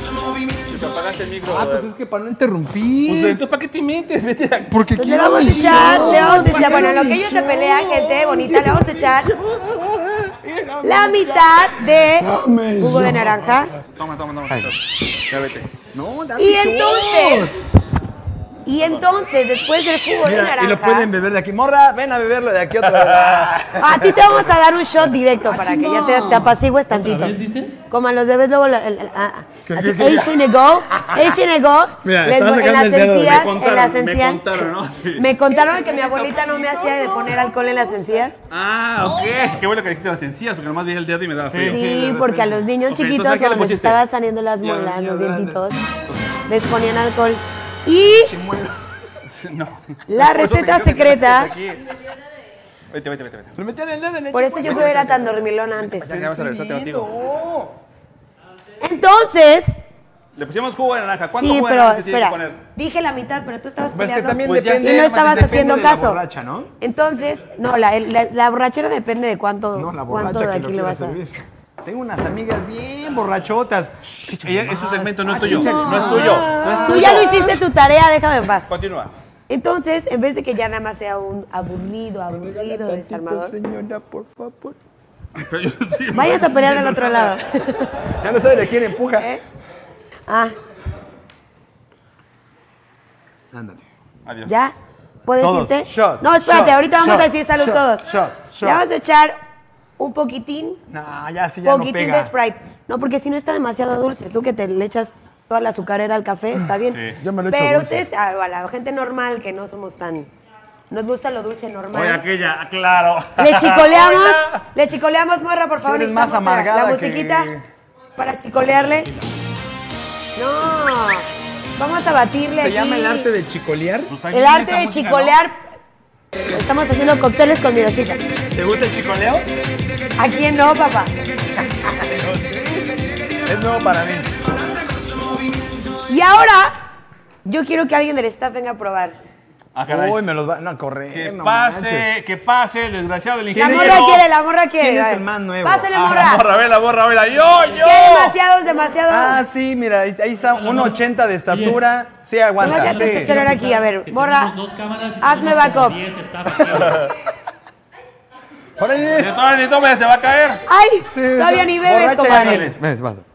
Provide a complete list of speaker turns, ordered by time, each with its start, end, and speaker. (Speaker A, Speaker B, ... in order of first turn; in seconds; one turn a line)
Speaker A: 0.7-1.9
Speaker B: 1.4-3.4
Speaker A: 3.0-4.8
Speaker B: 4.7-13.8
Speaker C: 5.0-9.3
Speaker A: 5.4-7.0
Speaker D: 5.7-6.3
Speaker C: 10.8-13.7
Speaker A: 13.9-15.8
Speaker B: 14.5-14.7
Speaker B: 15.9-17.5
Speaker C: 16.4-17.5
Speaker C: 18.6-21.1
Speaker B: 20.2-24.6
Speaker A: 22.8-23.5
Speaker C: 23.8-27.4
Speaker D: 25.4-27.8
Speaker C: 27.9-34.4
Speaker B: 29.7-31.4
Speaker B: 32.0-33.5
Speaker A: 33.2-35.3
Speaker C: 35.2-38.4
Speaker B: 35.5-37.5
Speaker A: 38.5-41.8
Speaker B: 41.5-42.6
Speaker C: 41.6-45.8
Speaker A: 42.9-44.0
Speaker B: 44.6-45.6
Speaker C: 46.5-48.3
Speaker B: 48.2-48.7
Speaker A: 49.2-51.8
Speaker C: 50.1-51.5
Speaker A: 52.9-53.5
Speaker B: 53.5-57.8
Speaker C: 54.3-56.2
Speaker A: 55.8-57.1
Speaker C: 58.8-59.8
Speaker A: 60.3-62.6
Speaker C: 61.3-66.2
Speaker B: 63.9-66.7
Speaker A: 64.4-65.8
Speaker C: 66.8-71.3
Speaker B: 69.7-71.3
Speaker B: 71.8-77.6
Speaker A: 74.2-77.4
Speaker D: 75.2-76.6
Speaker C: 76.8-78.7
Speaker A: 78.7-79.1
Speaker C: 79.5-83.5
Speaker B: 82.3-84.8
Speaker A: 85.3-87.3
Speaker C: 86.1-88.0
Speaker B: 88.1-89.3
Speaker C: 89.1-89.4
Speaker C: 90.3-90.5
Speaker B: 93.5-93.8
Speaker A: 94.2-94.5
Speaker C: 94.5-94.7
Speaker C: 95.2-98.1
Speaker B: 95.4-98.8
Speaker C: 98.6-99.4
Speaker C: 100.0-100.8
Speaker B: 100.9-102.3
Speaker C: 101.6-110.3
Speaker A: 106.9-107.2
Speaker B: 107.2-108.1
Speaker C: 110.9-112.2
Speaker A: 111.9-114.6
Speaker C: 113.4-117.5
Speaker B: 115.8-117.6
Speaker C: 118.2-119.1
Speaker C: 120.3-123.3
Speaker B: 122.5-124.1
Speaker A: 124.1-125.4
Speaker C: 124.3-125.6
Speaker C: 126.5-128.2
Speaker A: 128.5-129.4
Speaker C: 130.2-131.1
Speaker B: 131.6-132.9
Speaker B: 133.4-134.3
Speaker C: 136.1-136.7
Speaker C: 137.4-139.2
Speaker A: 139.7-140.2
Speaker B: 139.9-142.1
Speaker A: 141.1-144.2
Speaker B: 143.5-144.2
Speaker C: 143.6-146.5
Speaker B: 144.8-145.9
Speaker A: 145.9-148.3
Speaker C: 147.7-149.4
Speaker B: 149.1-153.4
Speaker D: 150.6-151.0
Speaker D: 151.5-151.8
Speaker C: 152.6-154.5
Speaker D: 152.6-157.1
Speaker C: 155.2-156.0
Speaker A: 156.7-157.1
Speaker B: 158.8-159.3
Speaker A: 159.1-160.6
Speaker C: 160.7-162.7
Speaker B: 161.0-163.2
Speaker A: 162.1-162.8